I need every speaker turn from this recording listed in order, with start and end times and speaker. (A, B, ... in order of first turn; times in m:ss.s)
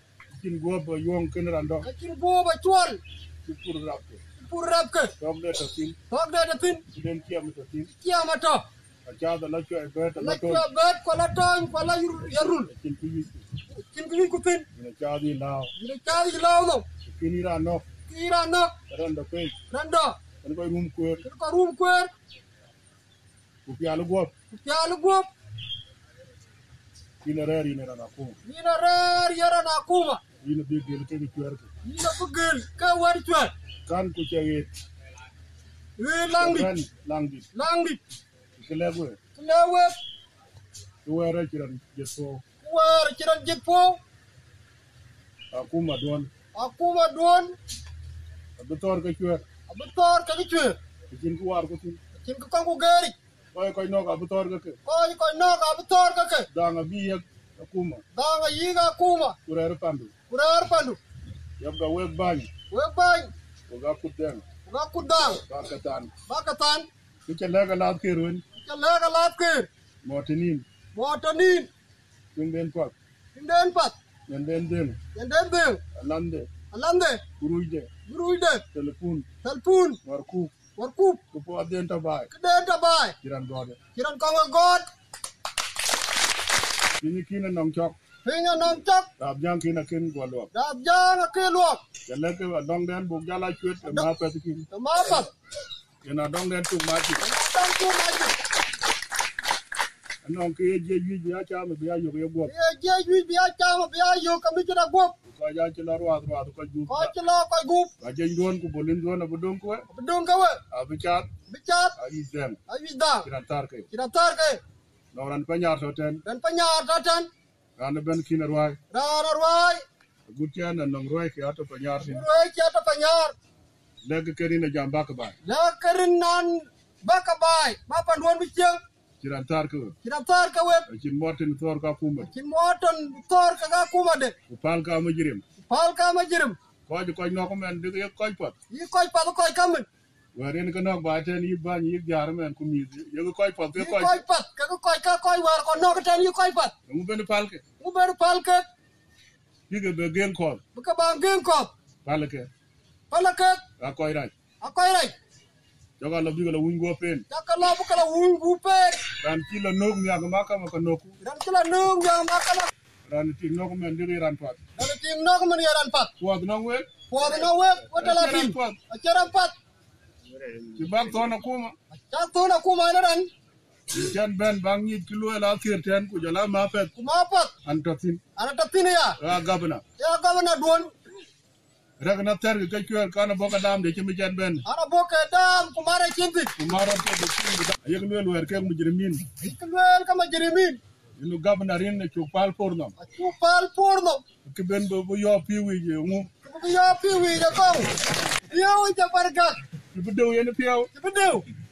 0:00.3-0:01.9 A
0:01.8-0:03.0 B
0:03.4-0:04.2 A
0:04.4-0:05.1 B
0:05.2-0:06.0 A
0:06.1-0:06.8 B
0:06.9-0:07.9 A
0:08.0-0:08.6 B
0:09.0-0:10.6 A
0:10.2-0:12.7 B
0:12.4-0:13.4 A
0:13.8-0:14.7 B
0:14.8-0:15.7 A
0:15.8-0:16.8 B
0:17.0-0:17.9 A
0:18.1-0:18.7 B
0:18.9-0:19.6 A
0:19.7-0:20.2 B
0:20.4-0:21.2 A
0:21.2-0:22.1 B
0:23.7-0:24.3 A
0:24.5-0:25.3 B
0:27.2-0:28.4 A
0:28.4-0:30.2 B
0:30.4-0:31.7 A
0:31.8-0:33.5 B
0:33.9-0:34.7 A
0:36.0-0:36.7 B
0:36.4-0:37.5 A
0:37.5-0:38.0 B
0:38.6-0:39.2 A
0:39.3-0:40.0 B
0:41.0-0:42.4 A
0:42.6-0:44.0 B
0:45.5-0:46.3 A
0:46.5-0:47.6 B
0:48.6-0:49.4 A
0:49.7-0:50.8 B
0:51.1-0:52.0 A
0:52.2-0:53.2 B
0:53.5-0:54.8 A
0:54.8-0:56.5 B
0:56.5-0:58.0 A
0:58.1-0:59.4 B
0:59.5-1:00.1 A
1:00.3-1:01.0 B
1:01.6-1:02.5 A
1:02.7-1:03.3 B
1:03.7-1:04.4 A
1:04.7-1:05.4 B
1:05.3-1:06.1 A
1:06.3-1:06.9 B
1:07.3-1:08.4 A
1:08.6-1:09.7 B
1:10.0-1:10.7 A
1:10.9-1:11.7 B
1:12.3-1:12.9 A
1:13.3-1:14.0 B
1:14.3-1:15.0 A
1:15.2-1:15.8 B
1:15.9-1:16.5 A
1:16.7-1:17.2 B
1:17.4-1:17.9 A
1:18.0-1:18.6 B
1:18.7-1:19.2 A
1:19.4-1:20.0 B
1:20.0-1:20.5 A
1:20.8-1:21.2 B
1:21.3-1:22.3 A
1:22.3-1:23.2 B
1:23.2-1:23.8 A
1:23.9-1:24.8 B
1:27.0-1:28.0 A
1:28.2-1:29.1 B
1:29.2-1:30.5 A
1:30.5-1:31.8 B
1:32.1-1:34.7 A
1:34.7-1:35.3 B
1:36.0-1:37.2 A
1:37.2-1:38.3 B
1:40.2-1:42.5 A
1:42.5-1:45.2 B
1:45.3-1:47.1 A
1:46.9-1:47.9 B
1:48.0-1:49.9 A
1:49.9-1:50.6 B
1:50.7-1:51.3 A
1:51.5-1:51.9 B
1:52.0-1:52.6 A
1:52.7-1:53.3 B
1:53.2-1:53.9 A
1:53.9-1:54.6 B
1:55.1-1:56.2 A
1:56.2-1:57.3 B
1:57.8-1:58.8 A
1:58.9-1:59.8 B
2:00.3-2:02.2 A
2:02.1-2:03.3 B
2:04.0-2:05.4 A
2:05.4-2:08.8 B
2:09.2-2:09.9 A
2:10.0-2:10.9 B
2:10.9-2:12.3 A
2:12.2-2:14.3 B
2:14.5-2:15.4 A
2:15.6-2:16.6 B
2:16.9-2:18.5 A
2:18.7-2:19.9 B
2:20.3-2:24.2 A
2:23.8-2:26.7 B
2:26.9-2:27.6 A
2:27.8-2:28.6 B
2:29.7-2:30.6 A
2:30.7-2:31.7 B
2:32.0-2:32.5 A
2:33.1-2:33.6 B
2:33.8-2:34.3 A
2:34.6-2:35.2 B
2:36.0-2:37.2 A
2:37.3-2:39.0 B
2:39.2-2:41.2 A
2:41.2-2:42.7 B
2:43.1-2:44.6 A
2:44.8-2:46.1 B
2:46.2-2:48.8 A
2:47.1-2:49.5 B
2:50.7-2:51.7 A
2:51.9-2:53.3 B
2:53.9-2:56.9 A
2:57.0-2:57.5 B
2:57.6-2:58.2 A
2:58.4-2:59.2 B
2:59.2-2:59.8 A
3:00.0-3:01.0 B
3:02.0-3:04.6 A
3:04.6-3:06.5 B
3:06.6-3:09.3 A
3:09.4-3:10.8 B
3:11.2-3:12.9 A
3:13.0-3:14.2 B
3:14.4-3:16.3 A
3:16.4-3:19.6 B
3:19.9-3:20.9 A
3:20.9-3:21.4 B